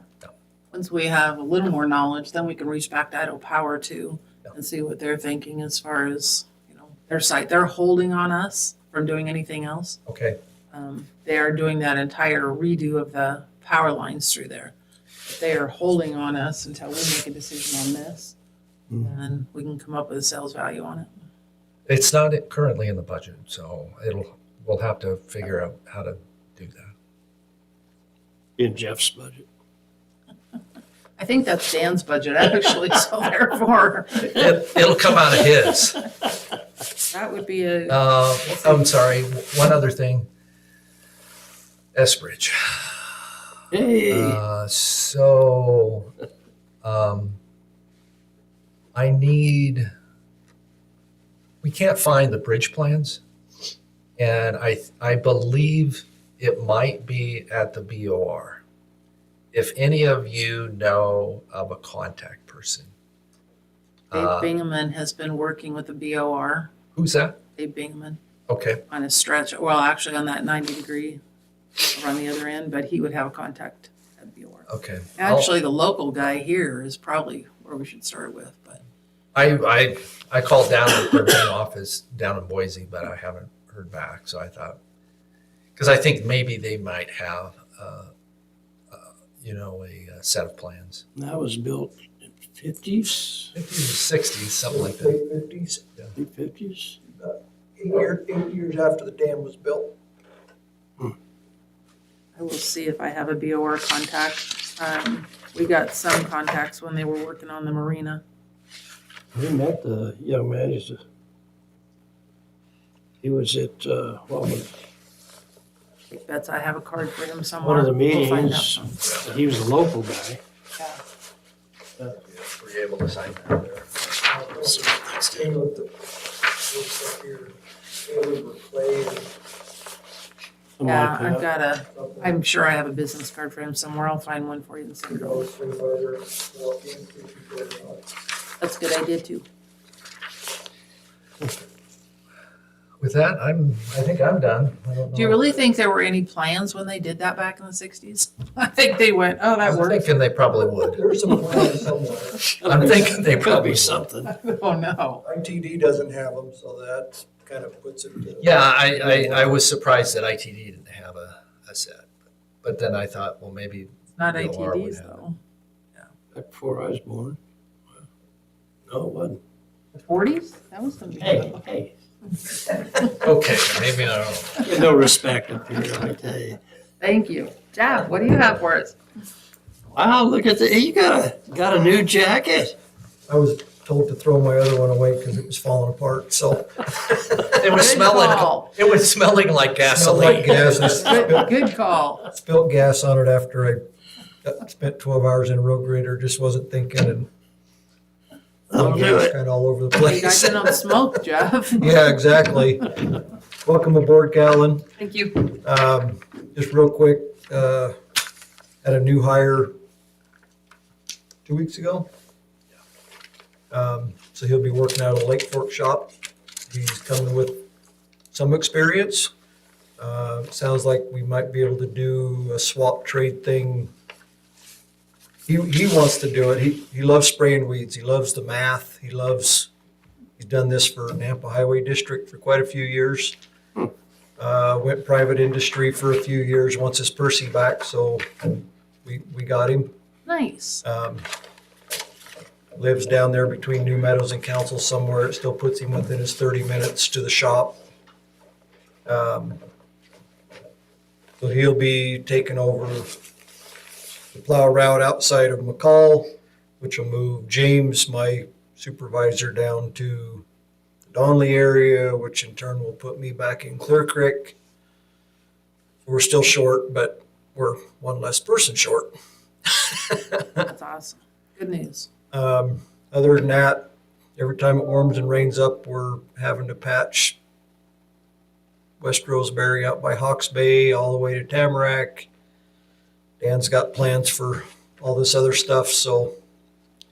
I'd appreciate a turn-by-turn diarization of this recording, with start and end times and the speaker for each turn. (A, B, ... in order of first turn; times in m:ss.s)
0:00.7-0:10.0 A
0:10.1-0:10.4 B
0:10.7-0:14.7 A
0:15.2-0:18.4 A
0:19.0-0:21.1 A
0:21.9-0:26.9 B
0:28.6-0:29.4 C
0:31.2-0:34.4 A
0:34.2-0:36.0 B
0:37.1-0:38.9 A
0:37.9-0:40.3 B
0:41.9-0:43.0 B
0:43.7-0:44.4 C
0:44.1-0:46.1 B
0:46.8-0:47.4 B
0:48.9-0:49.9 B
0:51.6-0:53.2 B
0:54.2-0:58.6 B
0:59.5-1:02.9 B
1:04.1-1:04.5 B
1:04.1-1:06.7 A
1:06.9-1:07.4 B
1:07.6-1:08.2 A
1:08.5-1:08.8 B
1:08.9-1:11.2 A
1:11.9-1:18.8 A
1:14.7-1:15.5 B
1:19.3-1:24.8 B
1:25.8-1:28.1 B
1:28.9-1:31.0 B
1:31.1-1:33.5 C
1:33.5-1:35.2 B
1:34.7-1:35.8 D
1:36.1-1:37.0 C
1:37.1-1:39.9 D
1:42.4-1:48.2 A
1:49.3-1:51.0 C
1:53.2-1:54.7 C
1:56.1-1:59.0 A
1:57.6-2:00.4 C
1:59.0-1:59.3 B
2:02.0-2:04.2 B
2:04.2-2:05.9 D
2:04.8-2:05.5 C
2:06.6-2:09.3 D
2:10.8-2:11.4 C
2:10.8-2:15.4 A
2:11.9-2:12.3 D
2:15.1-2:18.1 D
2:18.6-2:19.4 A
2:23.0-2:25.4 B
2:25.1-2:30.1 A
2:29.6-2:31.0 B
2:30.8-2:32.4 D
2:32.5-2:34.3 C
2:32.6-2:34.0 B
2:34.2-2:35.2 A
2:35.2-2:39.6 D
2:38.4-2:42.1 B
2:42.6-2:45.2 B
2:44.1-2:45.4 A
2:46.3-2:47.4 C
2:48.9-2:49.4 C
2:50.0-2:51.6 A
2:51.2-2:51.9 C
2:53.0-2:54.7 B
2:54.6-2:56.6 C
2:57.0-2:59.0 A
2:59.9-3:02.8 C
3:03.3-3:07.5 D
3:07.5-3:11.1 B
3:07.7-3:08.7 A
3:09.9-3:11.5 D
3:10.6-3:12.2 A
3:12.3-3:13.8 D
3:14.4-3:17.3 D
3:18.7-3:19.3 C
3:18.7-3:20.5 D
3:20.0-3:22.0 A
3:21.8-3:23.0 D
3:23.6-3:24.9 D
3:25.0-3:25.5 A
3:25.5-3:28.0 D
3:28.8-3:29.7 D
3:31.4-3:32.1 D
3:33.7-3:36.1 D
3:36.7-3:37.6 D
3:38.3-3:39.3 D
3:40.0-3:43.9 D
3:45.5-3:49.7 D
3:50.4-3:53.4 D
3:54.4-3:59.9 D
4:00.2-4:00.8 A
4:00.8-4:01.2 D
4:02.8-4:07.8 D
4:09.0-4:09.6 D
4:11.4-4:13.1 D
4:14.3-4:16.3 D
4:16.8-4:20.4 D
4:21.1-4:24.6 D
4:26.0-4:29.1 D
4:30.1-4:30.4 D
4:30.6-4:32.1 A
4:32.3-4:37.4 D
4:39.0-4:42.3 D
4:43.4-4:46.3 D